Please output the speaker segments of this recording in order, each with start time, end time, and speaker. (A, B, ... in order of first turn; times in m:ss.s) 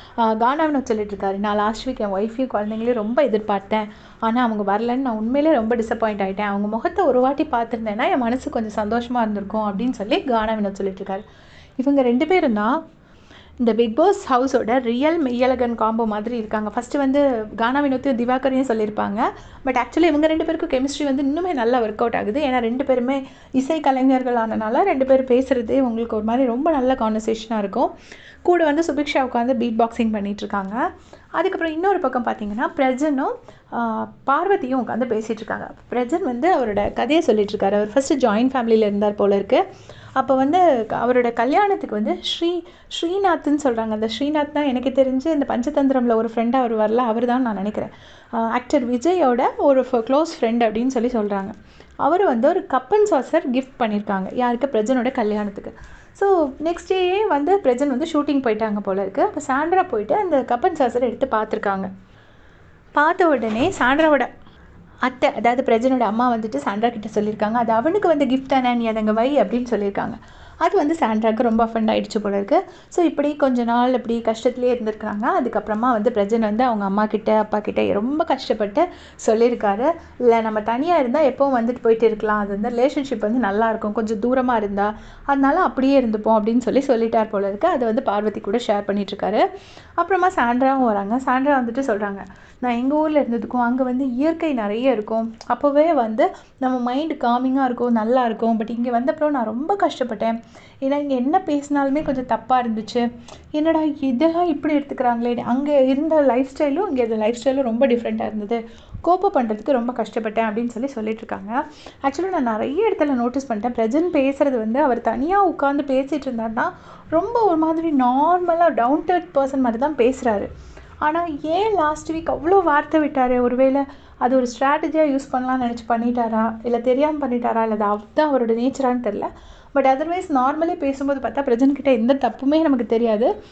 0:00.2-0:11.2 A
0:11.8-0:12.7 A
0:13.6-0:27.9 A
0:28.4-0:30.8 A
0:31.4-0:39.6 A
0:40.2-1:01.9 A
1:03.0-1:04.3 A
1:05.0-1:29.4 A
1:30.0-2:00.5 A
2:01.0-2:13.3 A